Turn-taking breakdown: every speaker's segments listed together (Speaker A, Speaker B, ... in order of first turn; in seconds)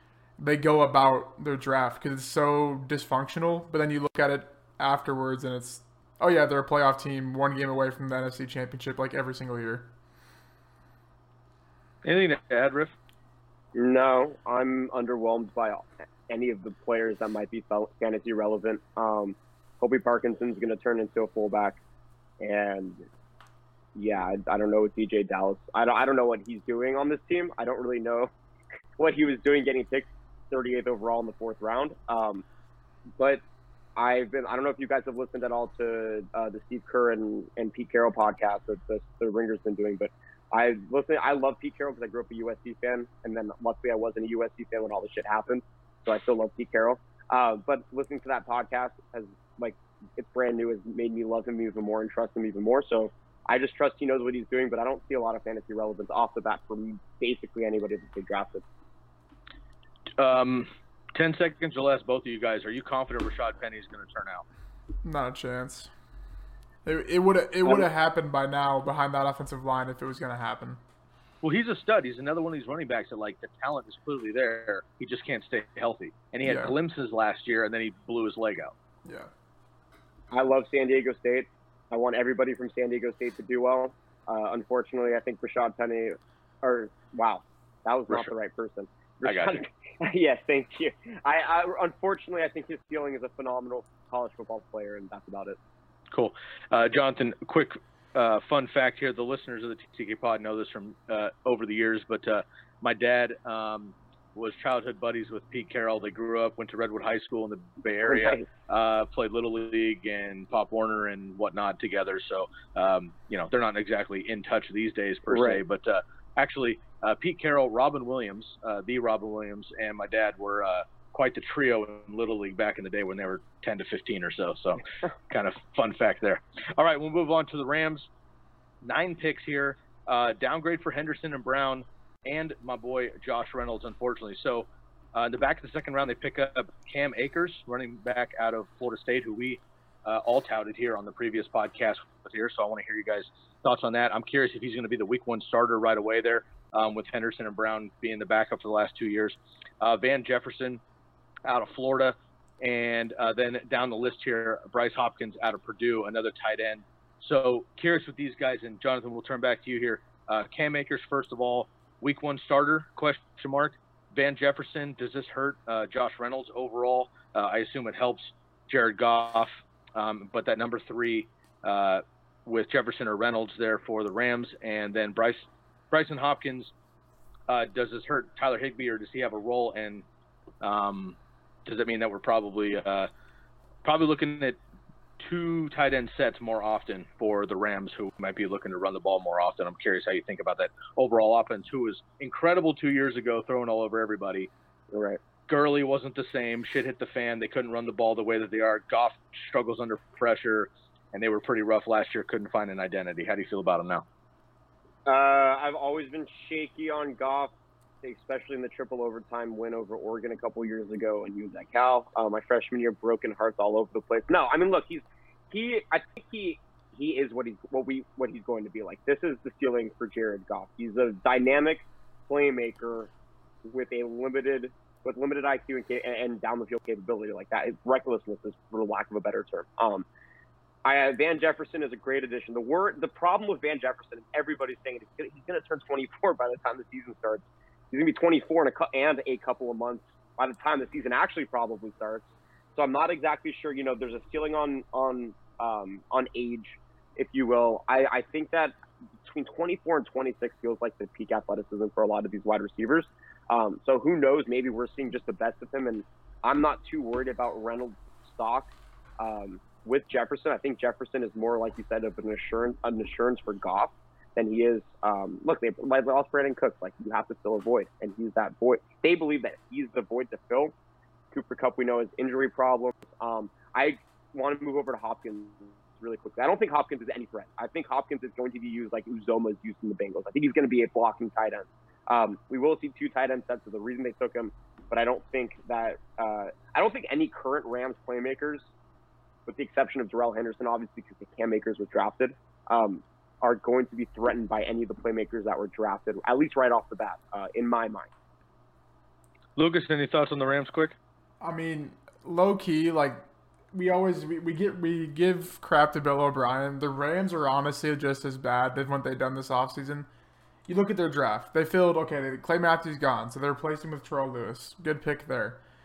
Speaker A: 0.4-9.9, 65.0-65.9, 66.8-70.8, 76.4-76.8, 79.0-79.3, 301.4-310.1, 310.7-315.6
Speaker B: 12.0-12.9, 60.2-64.5, 71.4-78.7, 89.2-89.6, 96.1-128.1, 128.8-150.8, 151.4-176.7, 177.5-180.1, 180.6-183.1, 183.8-184.6, 185.2-194.5, 195.5-204.1, 299.6-301.0
Speaker C: 13.7-21.8, 22.4-23.1, 23.9-28.3, 29.0-32.4, 34.0-58.6, 80.3-95.6, 108.1-108.5, 115.3-115.6, 194.9-195.2, 205.1-207.5, 208.0-223.1, 223.7-230.1, 230.8-242.2, 242.8-248.7, 249.3-270.7, 271.3-288.7, 289.5-298.1